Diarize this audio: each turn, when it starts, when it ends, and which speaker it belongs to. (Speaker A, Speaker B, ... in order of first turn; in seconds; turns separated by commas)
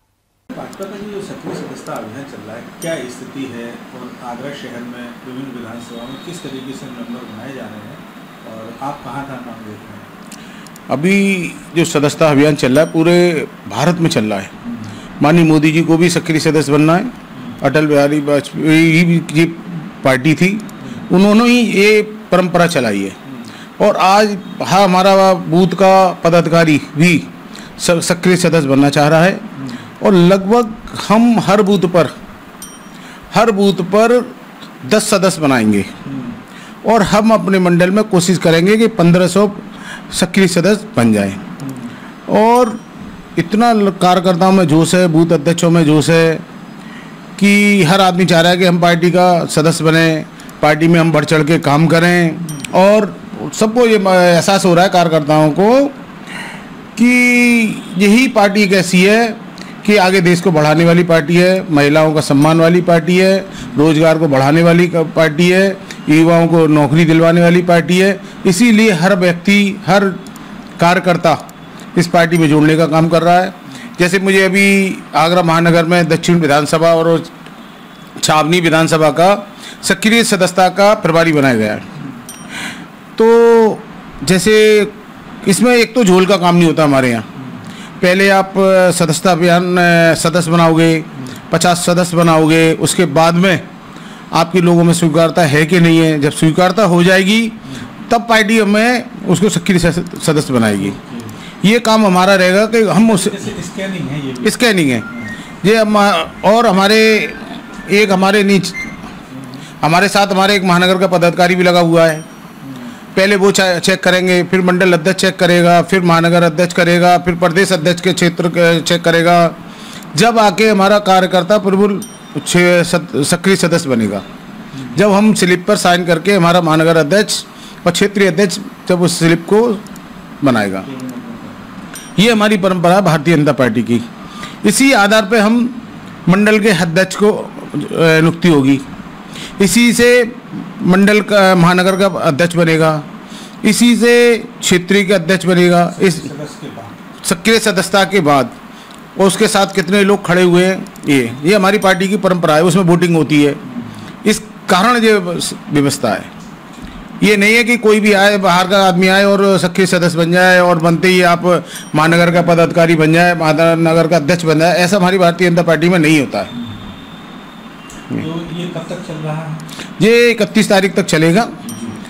Speaker A: 0.5-10.1, Speaker B: 10.9-14.5, Speaker B: 15.2-23.1, Speaker B: 23.8-29.4, Speaker B: 30.0-32.1, Speaker B: 33.3-35.9, Speaker A: 36.0-36.4, Speaker B: 36.8-41.4, Speaker A: 41.6-41.9, Speaker B: 42.3-42.8, Speaker B: 43.4-46.4, Speaker B: 47.4-55.9, Speaker B: 56.9-70.2, Speaker B: 70.8-71.4, Speaker B: 71.9-77.3, Speaker B: 78.2-81.8, Speaker B: 83.2-87.2, Speaker B: 88.0-93.6, Speaker B: 94.3-100.9, Speaker A: 100.7-101.3, Speaker B: 101.6-103.5, Speaker A: 103.0-105.3, Speaker B: 104.4-105.0, Speaker B: 105.6-108.9, Speaker A: 109.3-109.6, Speaker B: 109.8-112.2, Speaker A: 112.6-113.0, Speaker B: 113.1-119.5, Speaker B: 120.1-124.2, Speaker A: 124.7-125.0, Speaker B: 124.9-129.8, Speaker B: 130.4-130.9, Speaker A: 130.8-131.6, Speaker B: 132.2-134.0, Speaker B: 134.6-138.8, Speaker B: 139.6-143.1, Speaker B: 143.6-146.3, Speaker A: 145.9-146.9, Speaker B: 147.2-148.6, Speaker B: 149.2-153.6, Speaker A: 153.7-153.9, Speaker B: 154.2-156.3, Speaker B: 157.2-166.5, Speaker A: 168.1-169.6, Speaker B: 170.0-171.6, Speaker A: 171.6-172.0